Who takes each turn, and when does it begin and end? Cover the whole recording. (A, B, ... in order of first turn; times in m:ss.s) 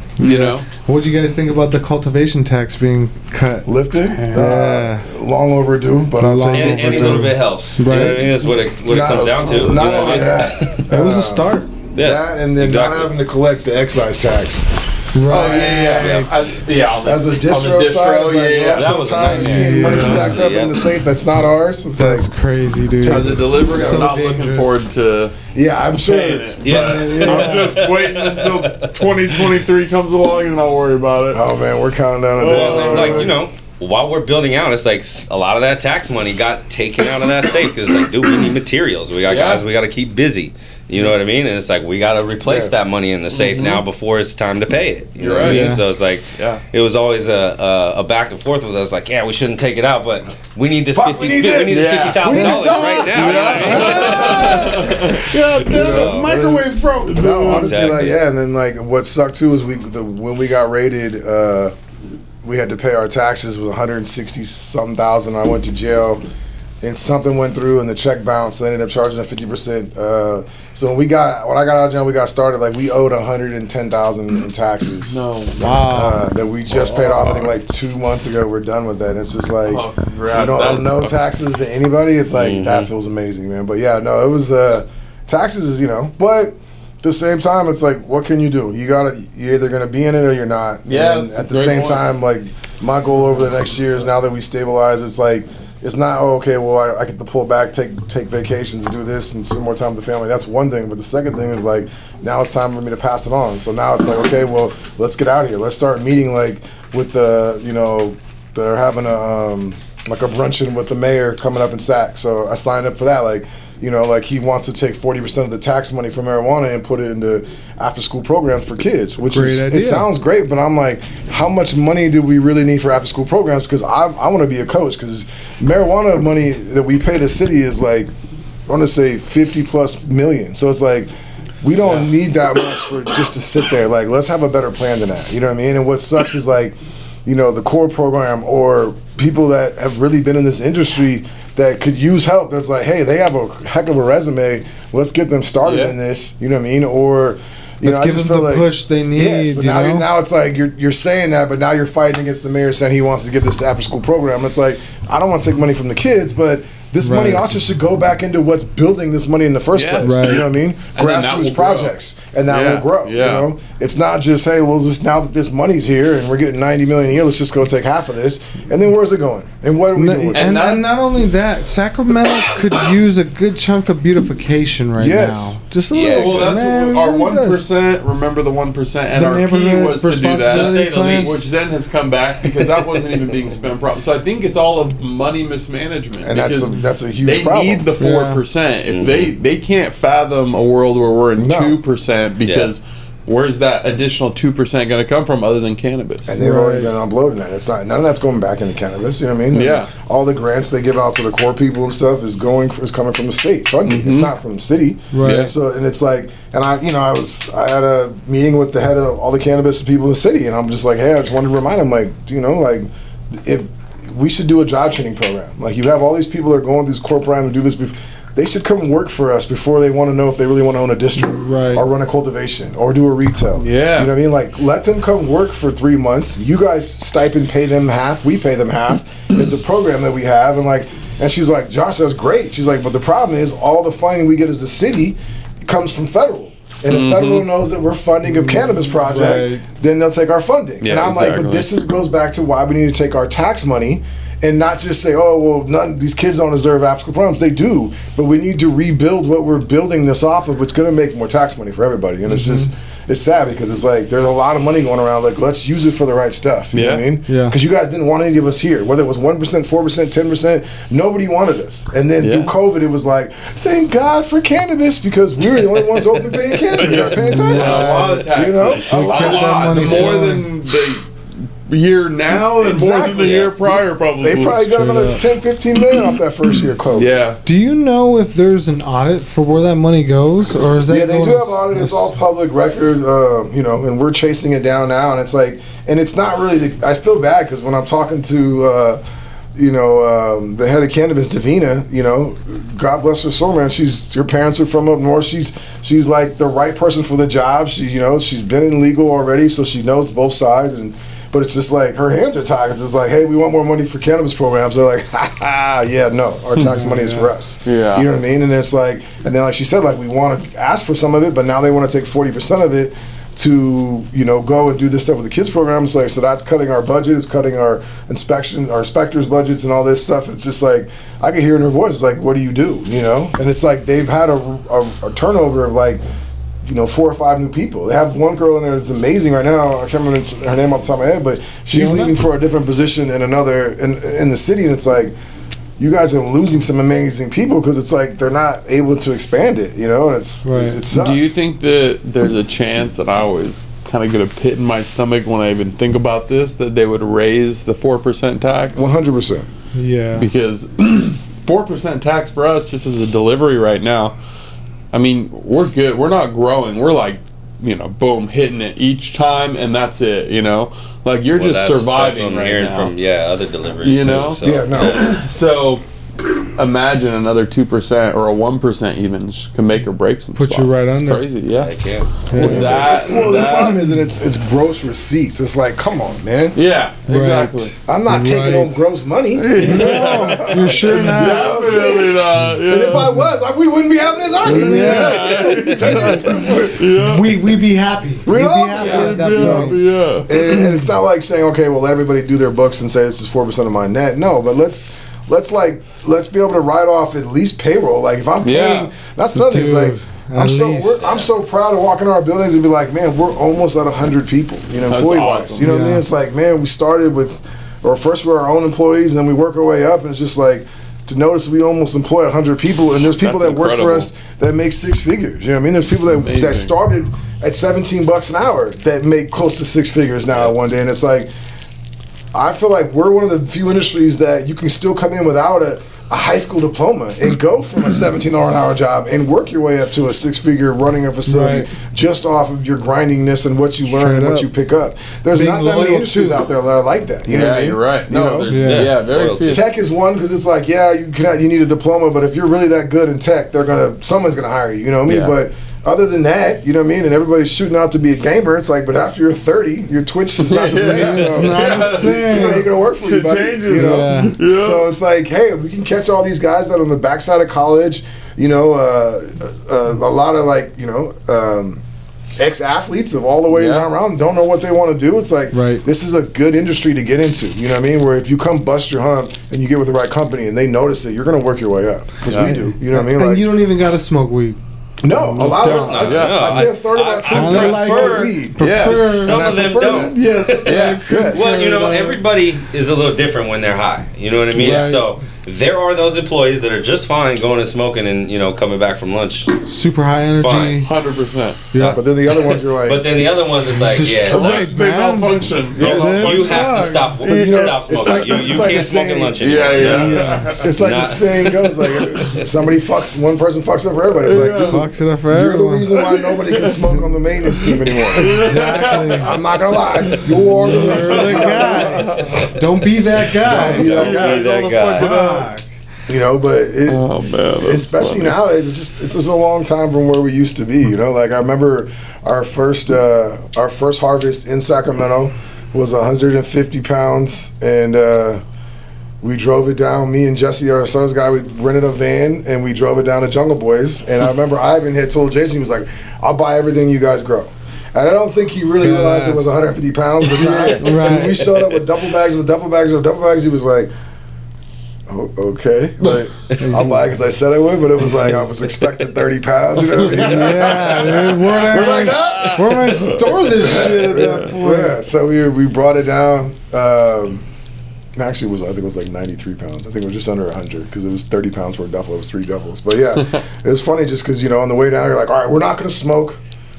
0:00.2-0:03.7 A
0:00.2-0:00.7 B
0:03.6-0:07.4 C
0:04.1-0:04.5 B
0:04.3-0:05.1 A
0:06.2-0:08.2 A
0:06.4-0:10.9 D
0:08.9-0:14.8 C
0:08.9-0:10.4 B
0:10.9-0:11.7 A
0:11.9-0:13.1 D
0:15.1-0:16.5 A
0:15.3-0:20.4 B
0:15.3-0:16.3 C
0:15.5-0:16.6 D
0:17.0-0:22.3 C
0:18.7-0:20.9 D
0:19.4-0:20.3 A
0:21.9-0:24.8 A
0:23.0-0:25.4 B
0:23.0-0:24.1 C
0:25.5-0:26.9 C
0:26.0-0:31.4 B
0:26.1-0:29.5 D
0:26.8-0:27.8 A
0:31.3-0:33.3 C
0:32.4-0:33.4 B
0:32.4-0:56.4 D
0:39.3-0:39.6 B
0:42.4-0:42.7 C
0:43.3-0:43.8 B
0:45.2-0:45.7 B
0:45.4-0:45.8 A
0:50.9-1:01.7 C
0:51.7-0:55.2 B
0:52.6-0:57.7 A
0:57.1-0:57.9 B
0:57.5-0:58.2 D
1:02.4-1:06.2 C
1:06.8-2:08.1 C
1:15.1-1:16.0 B
1:15.6-1:16.2 A
1:16.7-1:17.5 B
1:19.7-1:21.2 B
1:22.4-1:22.9 D
1:30.9-1:32.0 B
1:59.3-2:00.1 A
2:08.7-2:11.1 C
2:11.6-2:50.8 C
2:11.8-2:12.1 B
2:25.6-2:25.9 B
2:27.8-2:30.0 A
2:37.0-2:37.4 A
2:39.7-2:41.9 B
2:40.0-2:40.4 A
2:42.5-2:43.5 B
2:49.9-2:57.6 A
2:50.3-2:50.9 B
2:55.0-2:55.6 C
2:55.9-2:56.6 D
2:56.2-3:16.3 B
2:59.1-3:01.4 A
3:00.5-3:01.4 D
3:06.2-3:07.9 C
3:08.0-3:08.4 A
3:08.9-3:09.3 D
3:11.4-3:11.8 C
3:12.4-3:12.7 D
3:16.3-4:30.2 C
3:16.4-3:16.9 A
3:19.5-3:19.9 B
3:23.9-3:24.3 B
3:25.1-3:25.5 A
3:25.2-3:25.5 B
3:41.3-3:41.8 A
3:43.6-3:44.1 B
3:56.9-3:57.5 B
3:59.1-3:59.6 A
4:00.8-4:01.7 B
4:12.3-4:12.7 A
4:16.7-4:17.1 B
4:17.3-4:17.6 A
4:22.2-4:22.5 B
4:26.4-4:34.7 B
4:27.1-4:30.5 A
4:32.3-4:37.1 C
4:33.2-4:33.5 D
4:34.7-4:35.2 A
4:36.9-4:37.4 B
4:37.4-4:42.1 A
4:40.9-4:49.0 C
4:49.6-5:26.0 C
5:06.8-5:07.2 A
5:07.6-5:08.1 B
5:26.6-5:35.1 C
5:31.7-5:32.2 A
5:35.8-5:41.4 C
5:40.4-5:40.8 A
5:40.9-5:48.9 B
5:48.7-5:49.5 C
5:49.7-5:50.3 A
5:50.2-5:54.2 B
5:54.9-6:02.9 B
6:01.3-6:05.3 D
6:03.8-6:11.7 B
6:04.4-6:05.2 C
6:10.4-6:11.3 A
6:11.6-6:13.8 D
6:12.3-6:12.9 A
6:12.3-6:13.6 B
6:12.3-6:16.6 C
6:16.6-6:17.7 B
6:17.1-6:18.7 A
6:17.8-6:27.1 C
6:19.4-6:23.2 B
6:19.6-6:21.7 A
6:24.4-6:27.6 B
6:24.4-6:25.4 A
6:25.2-6:26.3 D
6:26.5-6:29.8 A
6:28.2-7:01.3 C
6:28.7-6:30.4 B
6:30.3-6:30.8 A
6:38.4-6:38.9 B
6:39.3-6:41.1 A
6:41.0-6:41.3 D
6:44.9-6:45.7 B
6:45.6-6:46.0 A
6:53.0-6:54.1 B
6:56.1-6:56.7 B
7:02.3-7:18.5 C
7:11.3-7:11.7 A
7:13.9-7:14.5 A
7:15.3-7:16.4 A
7:17.3-7:19.6 B
7:18.5-7:19.6 D
7:18.5-7:18.9 A
7:19.4-7:41.8 C
7:25.1-7:25.4 B
7:30.4-7:34.8 B
7:30.7-7:32.7 A
7:33.7-7:34.4 A
7:42.4-7:53.4 C
7:43.5-7:43.9 B
7:45.5-7:45.8 A
7:52.3-7:52.6 B
7:52.5-7:54.6 A
7:55.0-8:00.2 C
7:55.1-7:56.1 A
7:55.4-8:09.5 D
7:56.0-7:56.7 B
7:57.3-8:02.2 A
7:58.6-7:59.3 B
8:00.6-8:01.1 B
8:01.1-8:01.5 C
8:04.5-8:05.1 A
8:09.6-8:10.9 A
8:10.4-8:10.8 D
8:10.8-8:11.6 B
8:11.7-8:12.0 A
8:11.8-8:14.7 D
8:11.8-8:13.3 C
8:13.8-8:17.1 A
8:14.2-8:18.7 B
8:15.7-8:22.5 D
8:15.7-8:16.5 C
8:17.2-8:32.4 C
8:19.4-8:20.7 B
8:20.0-8:20.5 A
8:21.9-8:22.3 B
8:24.2-8:24.8 B
8:24.6-8:25.9 A
8:25.9-8:32.6 B
8:28.2-8:29.4 A
8:30.4-8:35.6 A
8:32.0-8:32.4 D
8:33.2-8:35.5 B
8:33.4-8:34.4 C
8:33.5-8:35.2 D
8:36.1-8:48.4 C
8:36.9-8:38.4 B
8:49.2-9:03.9 C
8:58.8-8:59.6 A
9:00.3-9:01.4 A
9:00.4-9:01.9 D
9:05.1-9:17.4 C
9:06.6-9:07.1 A
9:08.2-9:09.1 D
9:10.0-9:14.5 B
9:10.2-9:14.9 A
9:18.2-9:26.4 C